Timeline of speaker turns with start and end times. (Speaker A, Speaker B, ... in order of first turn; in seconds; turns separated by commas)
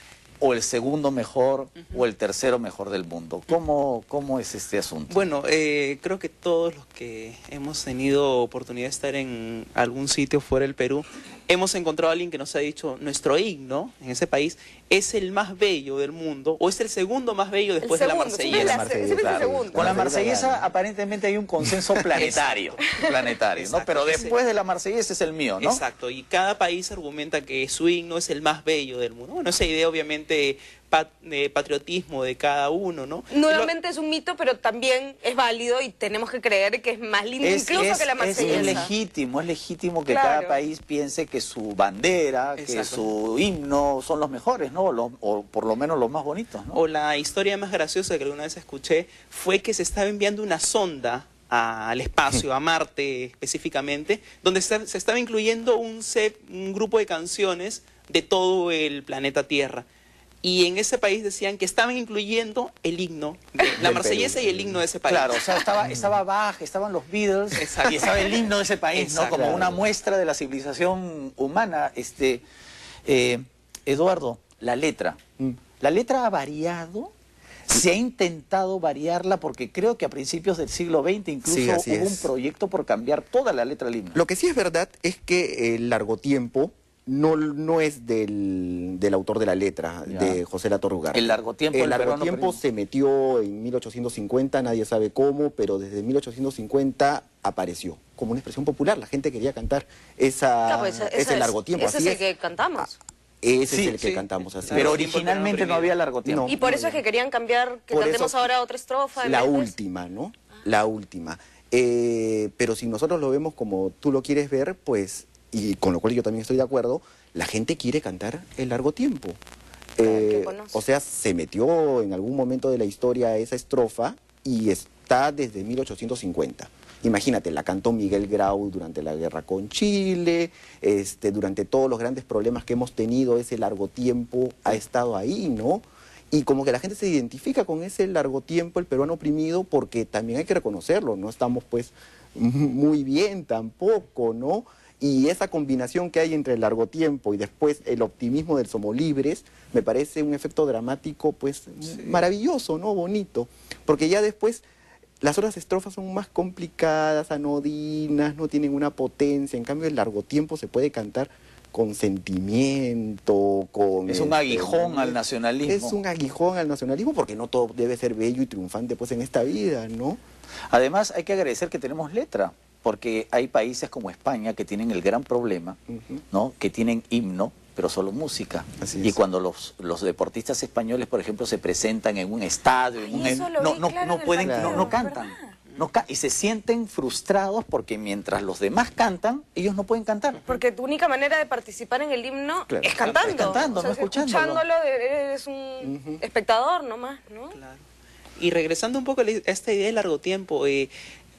Speaker A: 0.4-5.3, Speaker B: 5.1-18.9, Speaker C: 17.8-20.0, Speaker A: 18.5-25.8, Speaker D: 18.6-20.7, Speaker D: 21.6-22.2, Speaker B: 22.1-24.4, Speaker B: 25.6-33.7, Speaker C: 33.3-38.9, Speaker A: 37.4-46.8, Speaker B: 37.7-38.9, Speaker C: 40.1-40.6, Speaker B: 42.6-43.0, Speaker B: 46.7-59.9, Speaker B: 60.4-65.9, Speaker D: 63.8-64.8, Speaker A: 65.1-72.4, Speaker B: 67.5-69.7, Speaker D: 69.3-69.8, Speaker A: 73.0-75.2, Speaker A: 75.8-77.1, Speaker A: 77.7-84.2, Speaker D: 81.5-82.3, Speaker D: 84.1-102.2, Speaker A: 90.1-90.4, Speaker A: 91.1-92.6, Speaker C: 100.6-103.0, Speaker D: 103.4-105.0, Speaker A: 103.7-106.5, Speaker B: 104.6-106.0, Speaker D: 106.2-107.0, Speaker C: 106.5-109.7, Speaker D: 107.9-108.5, Speaker D: 109.2-119.4, Speaker D: 120.0-154.6, Speaker C: 120.0-120.8, Speaker D: 155.2-170.2, Speaker A: 164.1-166.0, Speaker A: 170.7-175.8, Speaker D: 175.9-176.2, Speaker A: 176.3-190.4, Speaker D: 178.8-179.2, Speaker C: 183.0-185.6, Speaker D: 183.2-183.4, Speaker D: 184.4-185.0, Speaker C: 190.4-197.6, Speaker D: 192.7-193.6, Speaker B: 193.0-193.4, Speaker A: 193.2-194.6, Speaker D: 195.8-196.2, Speaker B: 197.5-197.8, Speaker B: 198.4-200.9